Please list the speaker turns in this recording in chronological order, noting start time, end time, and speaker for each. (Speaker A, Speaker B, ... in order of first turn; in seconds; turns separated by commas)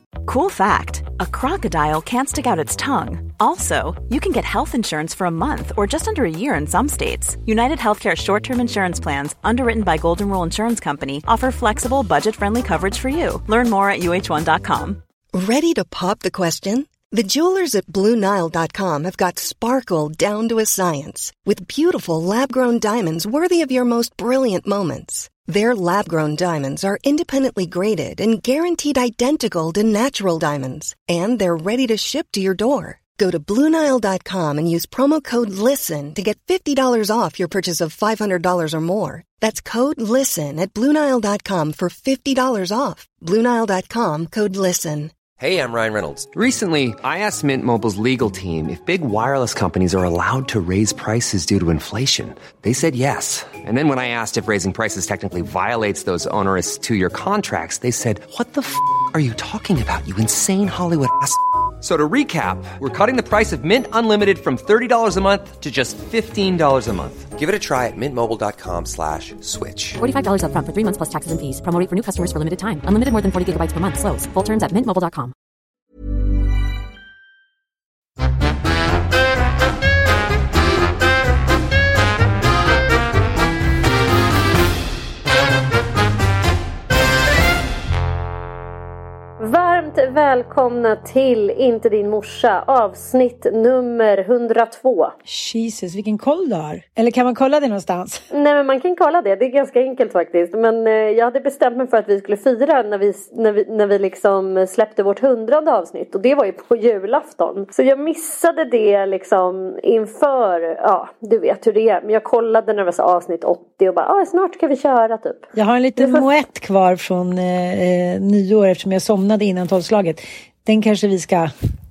Speaker A: 0.2-15.0, Speaker B: 15.3-45.1, Speaker C: 45.4-70.0, Speaker D: 70.0-75.3, Speaker E: 89.4-95.1, Speaker F: 95.3-98.2, Speaker E: 98.3-115.4, Speaker F: 115.5-121.5, Speaker E: 116.0-116.2